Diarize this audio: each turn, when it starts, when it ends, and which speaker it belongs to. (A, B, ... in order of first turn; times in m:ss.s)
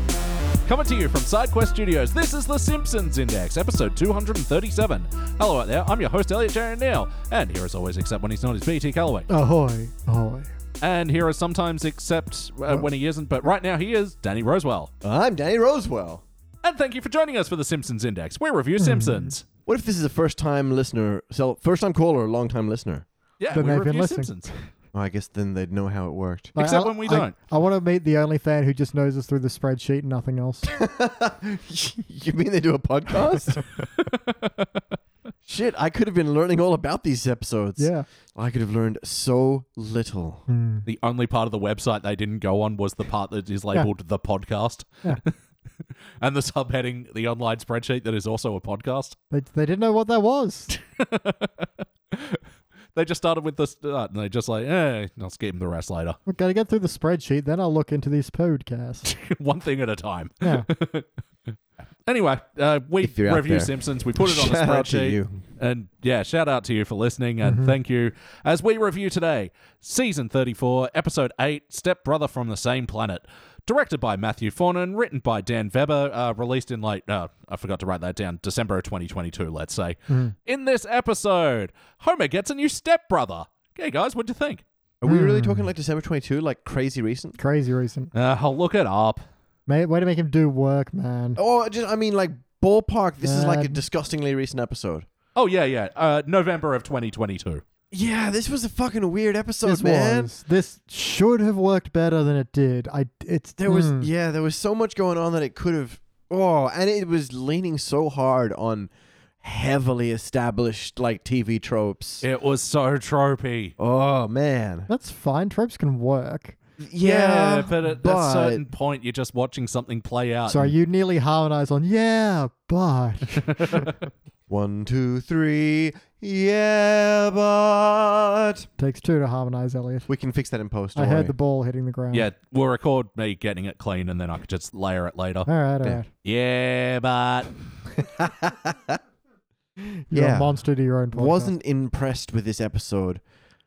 0:00.6-0:09.3 A
0:09.3-0:10.5 B
0:10.8-0:14.9 A
0:15.0-0:16.2 C
0:16.6-0:19.4 A
0:18.8-0:19.3 B
0:19.6-0:23.0 C
0:23.4-0:24.5 A
0:23.5-0:24.5 B
0:24.9-0:26.6 C
0:26.6-0:30.7 B
0:26.6-0:27.3 A
0:30.6-0:33.6 C
0:34.0-0:34.8 A
0:35.4-0:40.4 C
0:37.8-0:38.0 B
0:40.5-0:40.8 B
0:40.8-0:45.3 A
0:46.2-0:49.2 A
0:49.3-0:50.7 B
0:50.7-0:52.4 A
0:52.9-0:56.2 A
0:56.2-0:59.1 B
0:59.0-1:01.1 A
1:00.4-1:00.7 B
1:02.0-1:24.6 A
1:03.0-1:05.4 C
1:07.4-1:07.8 B
1:20.1-1:20.3 B
1:25.0-1:27.4 C
1:25.1-1:25.7 B
1:27.4-1:28.1 B
1:28.1-1:29.2 A
1:29.7-1:31.4 B
1:31.4-1:35.1 C
1:33.2-1:33.8 B
1:35.3-1:37.6 A
1:37.9-1:40.3 C
1:39.6-1:44.1 B
1:43.6-1:48.9 C
1:49.4-1:52.2 C
1:52.2-1:53.7 A
1:53.8-1:54.9 C
1:54.9-1:56.6 B
1:56.8-1:58.6 C
1:57.0-2:00.7 A
2:00.5-2:03.9 B
2:04.5-2:08.7 C
2:08.8-2:10.1 B
2:10.1-2:11.3 C
2:11.0-2:12.3 B
2:12.1-2:15.5 A
2:15.5-2:16.1 B
2:16.2-2:17.5 A
2:18.0-2:19.0 C
2:19.9-2:21.5 B
2:20.1-2:20.6 C
2:21.1-2:23.2 C